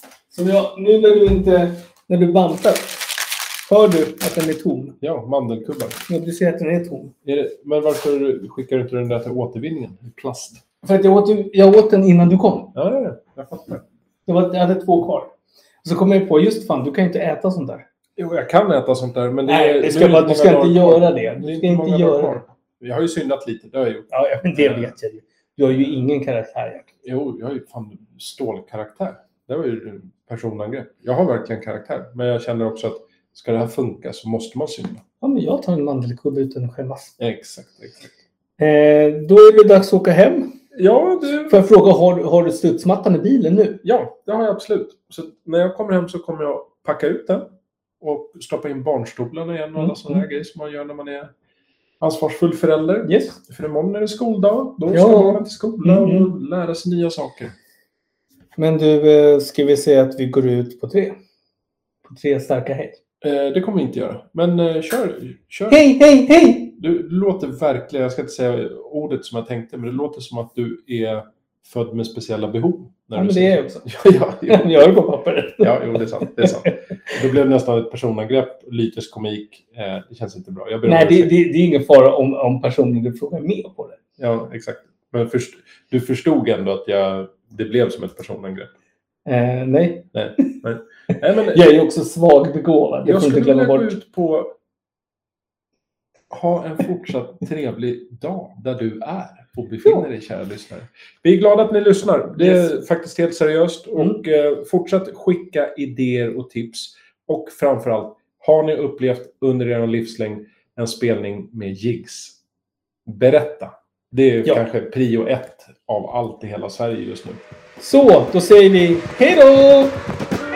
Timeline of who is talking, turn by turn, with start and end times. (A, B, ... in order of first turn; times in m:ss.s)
0:00.3-0:05.0 A
0:05.0-0:06.0 B
0:06.1-0:07.1 A
0:07.2-0:10.6 B
0:10.8-0:12.7 A
0:12.7-0:13.8 B
0:14.3-0:15.3 A
0:15.8-0:17.8 A
0:18.2-0:24.9 B
0:19.4-0:22.4 A
0:24.1-0:26.9 A
0:27.0-0:35.0 B
0:35.2-0:37.1 A
0:37.2-0:38.0 B
0:38.6-0:40.6 A
0:40.7-0:41.6 B
0:41.5-0:43.8 A
0:43.8-0:51.3 B
0:49.8-0:50.2 A
0:52.0-0:57.5 B
0:53.0-0:53.4 A
0:54.9-0:56.3 A
0:58.6-1:01.1 A
1:02.0-1:03.0 A
1:03.2-1:05.8 B
1:05.7-1:06.7 A
1:06.8-1:14.7 B
1:13.1-1:13.8 A
1:14.5-1:16.7 A
1:15.6-1:21.3 B
1:20.8-1:24.0 A
1:24.2-1:28.7 B
1:29.2-1:30.5 A
1:30.1-1:31.6 B
1:31.5-1:34.0 A
1:33.0-1:34.5 B
1:36.3-1:52.4 B
1:42.4-1:42.7 A
1:53.0-1:57.4 B
1:57.8-2:00.0 A